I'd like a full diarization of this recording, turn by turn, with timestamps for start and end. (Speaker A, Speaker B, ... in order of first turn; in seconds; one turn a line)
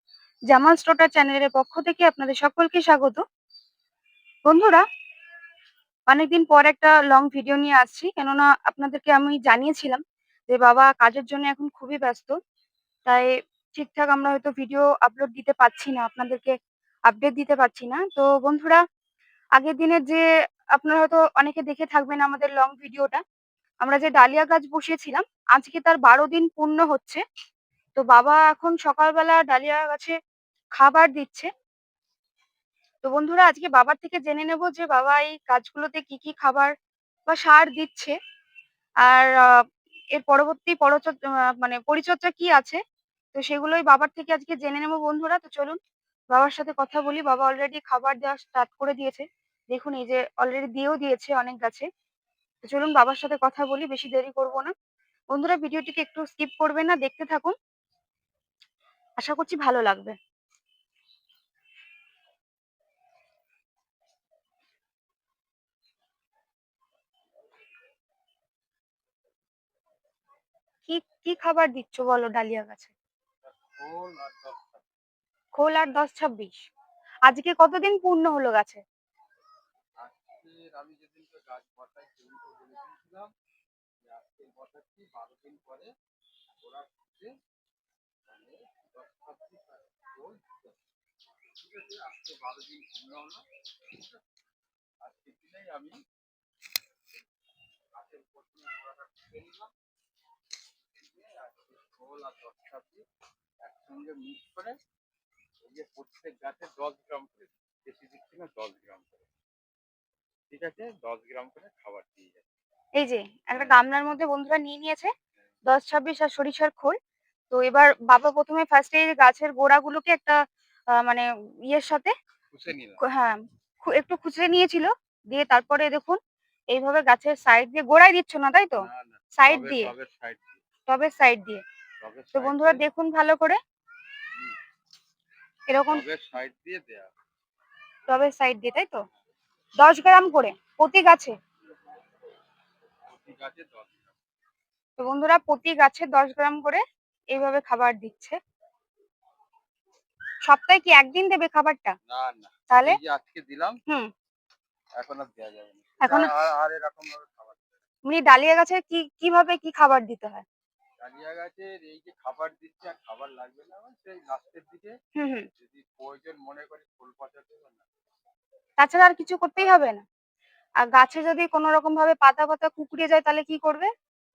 Speaker A: 0.5-3.2
Speaker A: 4.4-4.8
Speaker A: 6.1-12.4
Speaker A: 13.1-16.5
Speaker A: 17.1-18.8
Speaker A: 19.6-23.2
Speaker A: 23.8-27.2
Speaker A: 27.9-30.1
Speaker A: 30.8-31.5
Speaker A: 33.0-36.7
Speaker A: 37.3-38.1
Speaker A: 39.0-42.8
Speaker A: 43.3-45.8
Speaker A: 46.3-51.9
Speaker A: 52.6-54.7
Speaker A: 55.3-57.5
Speaker A: 59.2-60.2
Speaker A: 70.9-72.9
Speaker B: 73.4-74.8
Speaker A: 75.5-76.6
Speaker A: 77.3-78.8
Speaker B: 80.0-83.3
Speaker B: 84.0-85.9
Speaker B: 86.6-87.3
Speaker B: 88.3-90.8
Speaker B: 91.6-94.2
Speaker B: 95.0-96.0
Speaker B: 97.9-99.7
Speaker B: 101.0-103.0
Speaker B: 103.6-104.8
Speaker B: 105.6-109.2
Speaker B: 110.5-112.4
Speaker A: 113.0-115.1
Speaker A: 115.7-117.0
Speaker A: 117.5-120.4
Speaker A: 120.9-122.1
Speaker B: 122.5-123.0
Speaker A: 123.0-126.2
Speaker A: 126.7-129.9
Speaker B: 128.8-130.6
Speaker A: 130.9-131.6
Speaker B: 132.0-132.8
Speaker A: 132.3-133.6
Speaker A: 135.7-136.0
Speaker B: 135.9-137.1
Speaker A: 138.1-139.1
Speaker A: 139.8-141.3
Speaker B: 143.1-144.1
Speaker A: 145.0-148.4
Speaker A: 150.4-152.0
Speaker B: 152.1-153.8
Speaker A: 152.7-153.0
Speaker B: 155.0-157.8
Speaker A: 156.0-156.3
Speaker A: 158.0-160.4
Speaker B: 161.0-164.9
Speaker A: 165.2-165.5
Speaker B: 165.5-167.9
Speaker A: 168.8-170.0
Speaker B: 169.6-169.8
Speaker A: 170.8-173.9